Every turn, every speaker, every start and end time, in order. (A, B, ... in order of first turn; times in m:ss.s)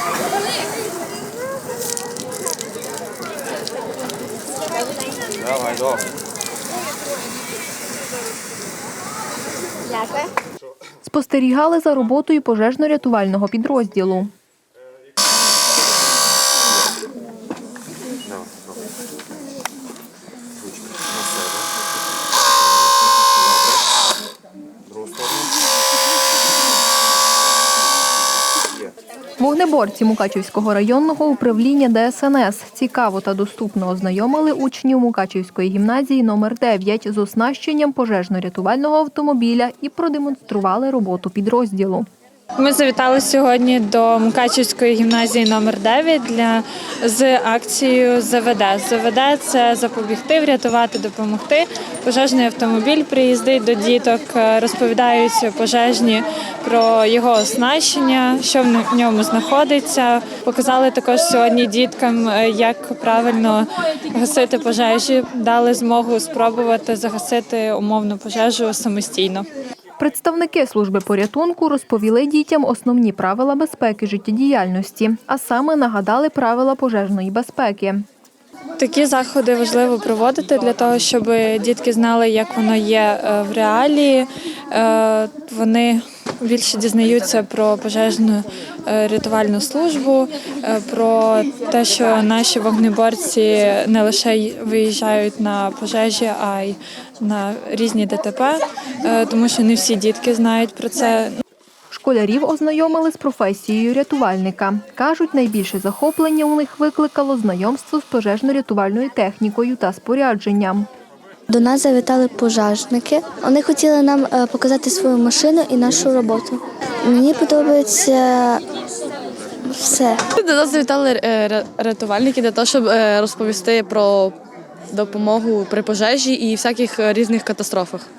0:11.0-0:14.3 A
0:18.3-0:18.9 B
0:20.6-0:21.7 B
0:22.6-0:23.9 B
0:24.9-0:25.5 B
0:29.4-0:42.1 A
0:42.6-1:09.5 C
1:10.0-1:18.0 A
1:18.8-1:41.3 C
1:41.9-1:50.9 A
1:51.5-1:58.6 D
1:59.7-2:00.2 D
2:00.4-2:04.4 E
2:04.9-2:08.1 E